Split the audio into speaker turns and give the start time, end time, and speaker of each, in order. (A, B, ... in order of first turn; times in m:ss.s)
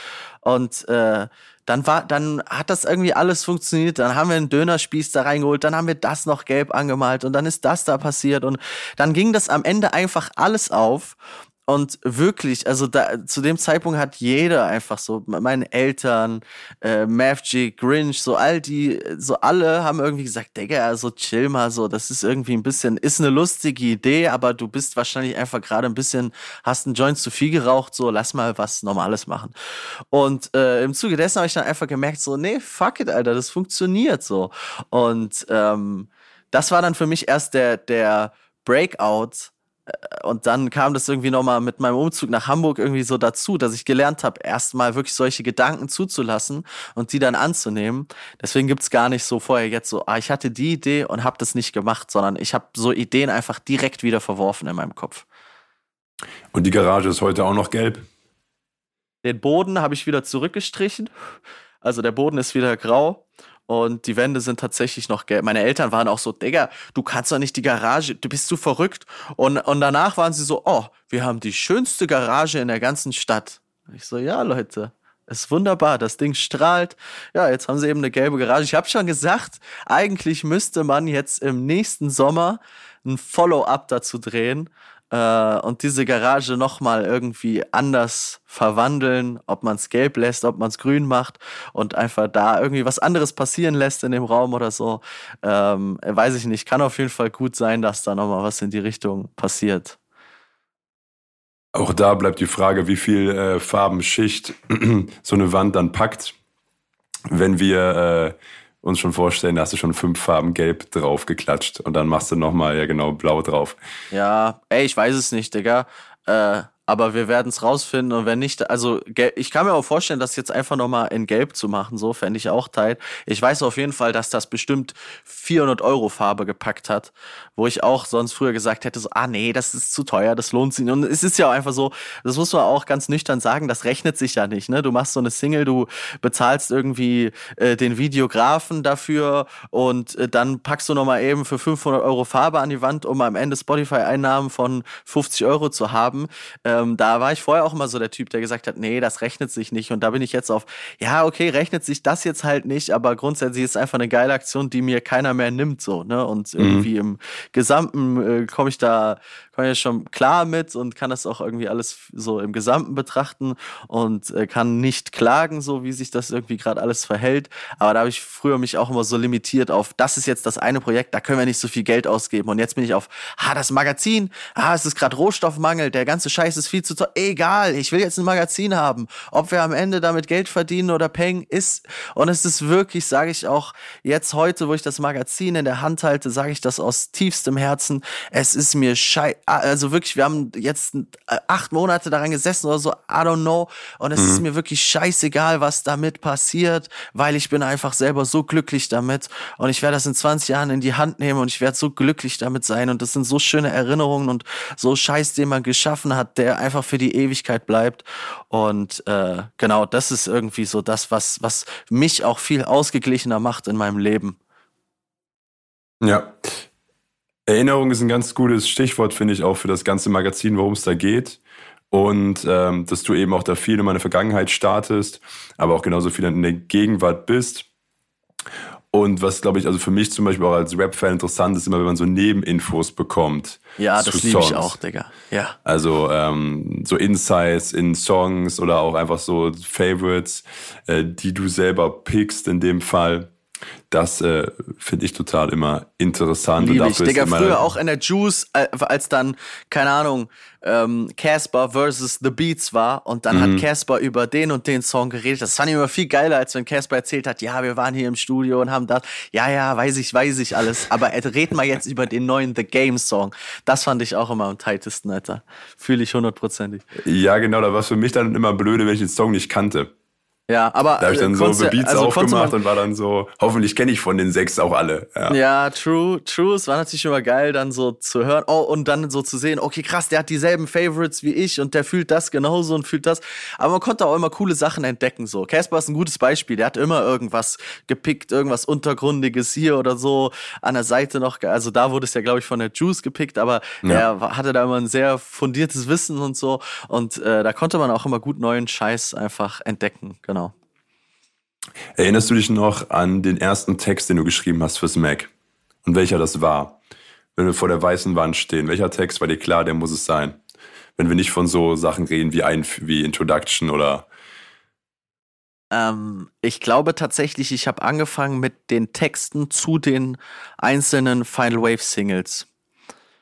0:00.4-0:29.5 A
0:30.1-0:55.3 A
0:56.5-0:58.1 B
0:59.2-1:01.1 A
1:01.8-1:40.0 A
1:41.8-1:46.4 B
1:47.3-1:53.8 B
1:54.1-3:34.4 A
2:36.6-2:36.9 B
3:14.2-3:14.4 B
3:36.0-3:36.5 B
3:37.4-3:41.4 B
3:41.9-3:47.7 B
3:48.9-3:54.8 B
3:53.8-3:55.6 A
3:55.6-4:03.3 B
4:03.9-4:07.6 B
4:06.6-4:26.8 A
4:13.3-4:13.6 B
4:27.0-4:29.9 B
4:30.5-4:32.6 A
4:31.0-4:35.4 B
4:35.3-5:00.5 A
5:02.0-5:05.3 B
5:05.8-5:06.8 B
5:07.4-5:10.4 B
5:11.0-5:14.1 B
5:15.7-5:22.5 A